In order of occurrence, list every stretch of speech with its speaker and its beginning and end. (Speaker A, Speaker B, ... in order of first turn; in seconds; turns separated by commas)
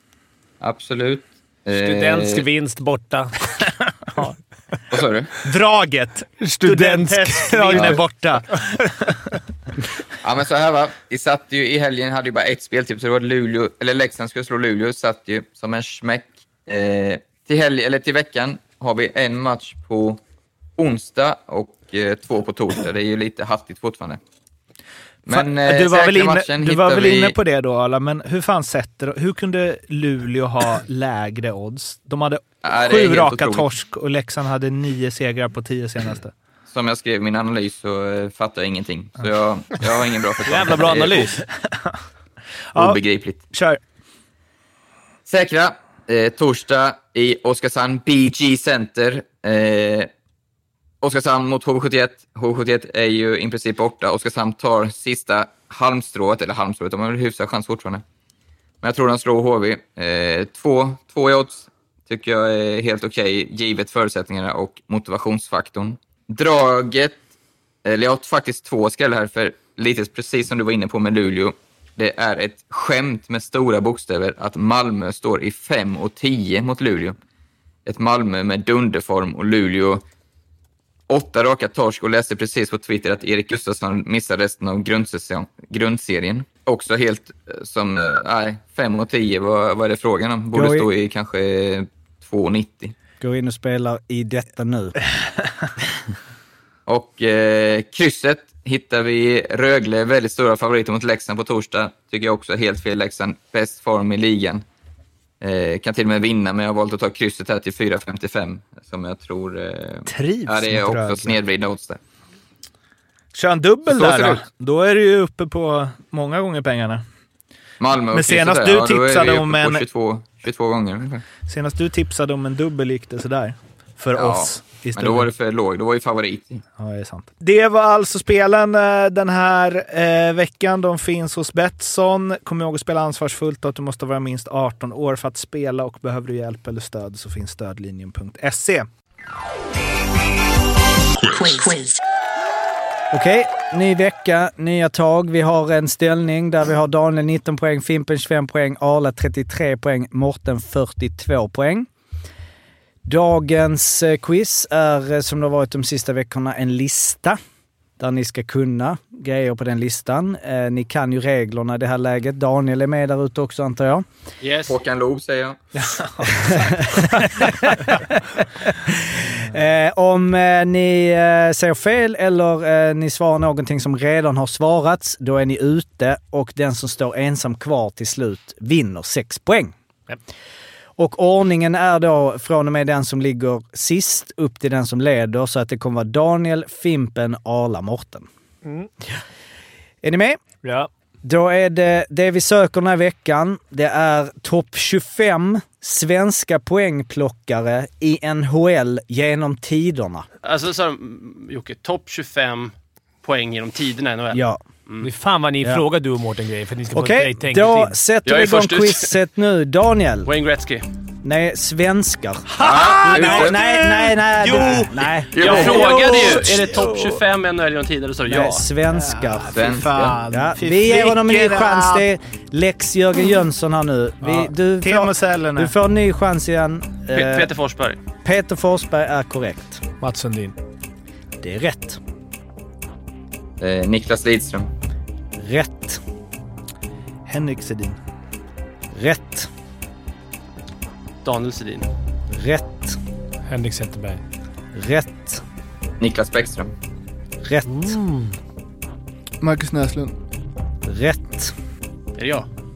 Speaker A: 0.6-2.4, Speaker B: 1.7-3.6, Speaker A: 4.9-5.3, Speaker C: 5.4-9.2, Speaker B: 6.4-8.0, Speaker A: 10.2-20.2, Speaker A: 20.8-24.2, Speaker A: 25.3-27.4, Speaker C: 25.3-36.3, Speaker A: 32.6-33.7, Speaker A: 36.7-41.3, Speaker B: 40.5-41.4, Speaker C: 42.7-43.0, Speaker A: 42.8-43.4, Speaker C: 43.5-43.8, Speaker A: 45.3-50.1, Speaker A: 51.0-58.0, Speaker A: 58.8-67.2, Speaker A: 67.8-77.2, Speaker A: 77.9-80.0, Speaker A: 81.1-92.9, Speaker D: 90.5-90.9, Speaker D: 93.2-95.0, Speaker A: 96.9-104.6, Speaker A: 105.4-112.0, Speaker C: 110.1-111.4, Speaker C: 113.3-117.0, Speaker A: 113.9-114.4, Speaker A: 117.8-121.2, Speaker C: 118.1-119.8, Speaker C: 121.5-125.3, Speaker A: 124.2-126.6, Speaker C: 126.8-138.9, Speaker D: 143.1-151.9, Speaker D: 153.1-157.4, Speaker D: 158.0-164.1, Speaker E: 164.4-164.7, Speaker A: 164.7-165.6, Speaker C: 165.8-166.8, Speaker D: 166.5-179.8, Speaker D: 181.0-188.3, Speaker B: 188.6-188.9, Speaker D: 190.0-190.4, Speaker B: 190.6-190.9, Speaker D: 191.2-200.3, Speaker E: 200.4-205.1, Speaker D: 204.3-204.6, Speaker B: 205.0-207.9, Speaker D: 206.9-210.3, Speaker E: 208.2-209.1, Speaker E: 210.2-210.9, Speaker D: 211.2-212.5, Speaker A: 212.6-213.6, Speaker C: 213.1-213.6, Speaker D: 213.1-216.4, Speaker C: 214.5-214.8, Speaker E: 214.8-218.7, Speaker A: 215.3-215.9, Speaker D: 218.3-219.5, Speaker C: 218.9-222.0, Speaker A: 219.5-220.2, Speaker D: 220.3-227.5, Speaker C: 224.8-225.7, Speaker E: 227.1-228.0, Speaker D: 228.2-229.8, Speaker B: 230.0-230.6, Speaker D: 231.4-232.0, Speaker A: 233.6-234.7, Speaker D: 235.4-236.0, Speaker C: 237.3-238.0, Speaker D: 238.9-239.5, Speaker E: 241.2-241.9, Speaker D: 242.3-243.0, Speaker B: 243.5-244.2, Speaker D: 244.8-245.4, Speaker A: 246.0-246.7, Speaker D: 247.4-248.0, Speaker B: 247.7-248.3, Speaker C: 249.4-250.1, Speaker D: 250.8-251.5, Speaker E: 252.2-252.5